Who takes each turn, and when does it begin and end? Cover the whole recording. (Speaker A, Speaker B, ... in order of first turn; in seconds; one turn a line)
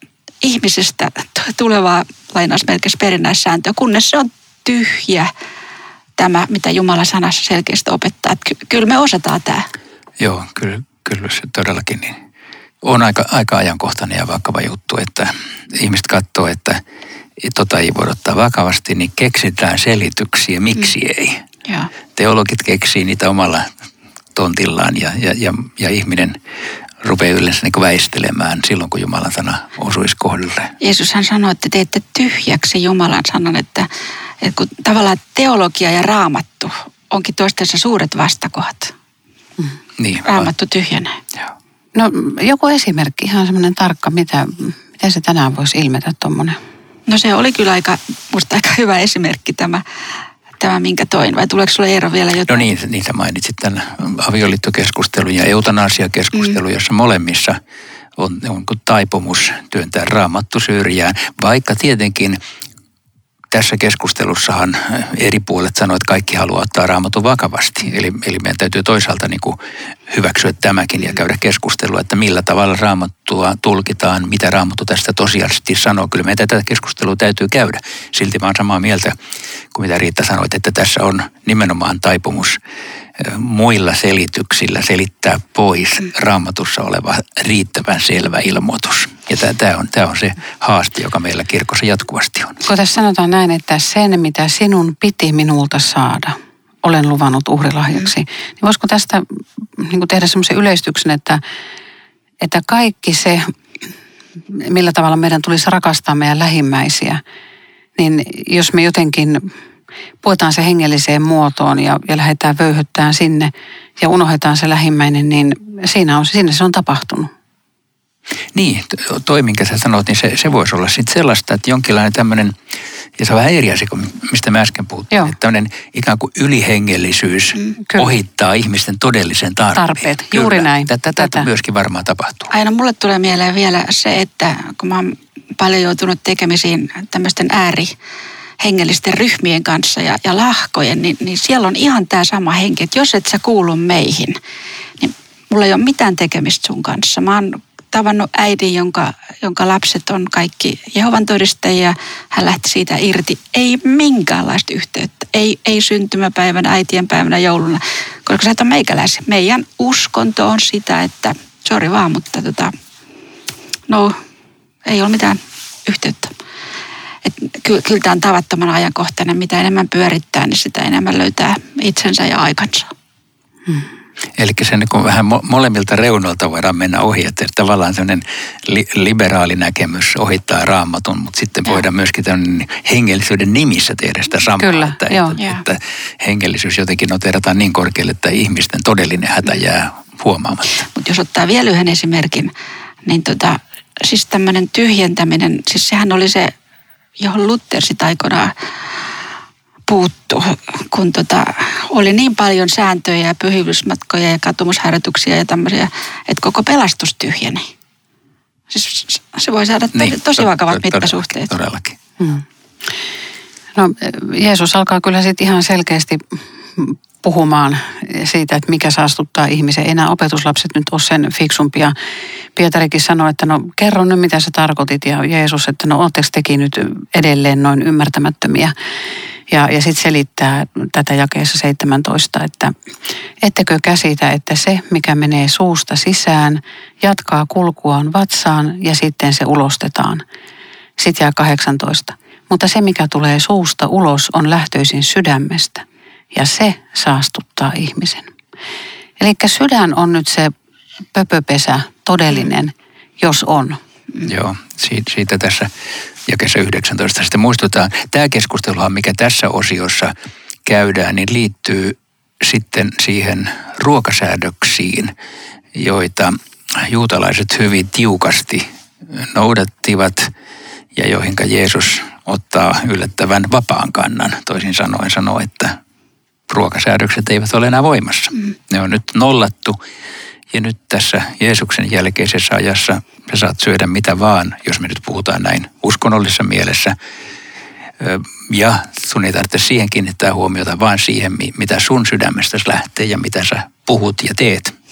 Speaker A: 0.4-5.3
Speaker A: 6.2-9.7
Speaker B: 10.2-12.2
Speaker B: 12.8-16.8
Speaker B: 17.4-21.4
Speaker B: 22.1-23.7
Speaker B: 24.3-26.4
Speaker B: 27.0-30.7
Speaker A: 30.8-33.9
Speaker A: 34.4-38.9
Speaker B: 40.0-40.5
Speaker A: 40.2-41.2
Speaker C: 41.9-46.6
Speaker A: 47.1-49.8
Speaker A: 50.6-52.6
Speaker B: 52.5-57.6
Speaker B: 58.2-62.4
Speaker B: 63.5-79.1
Speaker B: 79.7-82.6
Speaker B: 83.2-92.6
Speaker C: 92.6-101.4
Speaker C: 102.4-103.5
Speaker C: 104.5-107.2
Speaker C: 108.0-109.5
Speaker C: 110.2-117.3
Speaker B: 118.5-122.5
Speaker B: 123.2-132.5
Speaker C: 129.7-131.5
Speaker A: 132.5-137.9
Speaker A: 138.6-144.4
Speaker A: 145.0-162.7
Speaker A: 163.9-164.2
Speaker A: 164.8-166.3
Speaker A: 167.2-172.9
Speaker B: 174.3-190.8
Speaker C: 184.6-185.4
Speaker A: 185.4-185.6
Speaker A: 190.8-192.5
Speaker A: 193.0-196.5
Speaker A: 197.2-198.5
Speaker A: 199.9-207.7
Speaker A: 208.7-211.5
Speaker B: 209.9-212.0
Speaker C: 212.2-212.4
Speaker C: 213.8-221.9
Speaker C: 222.5-228.7
Speaker C: 229.5-232.7
Speaker C: 233.4-240.2
Speaker C: 241.0-248.3
Speaker C: 249.2-250.5
Speaker C: 251.1-253.8
Speaker B: 254.2-255.7
Speaker B: 256.3-260.1
Speaker B: 260.6-265.1
Speaker B: 265.7-270.3
Speaker B: 270.9-275.8
Speaker B: 276.5-279.8
Speaker B: 280.5-286.9
Speaker B: 288.0-294.7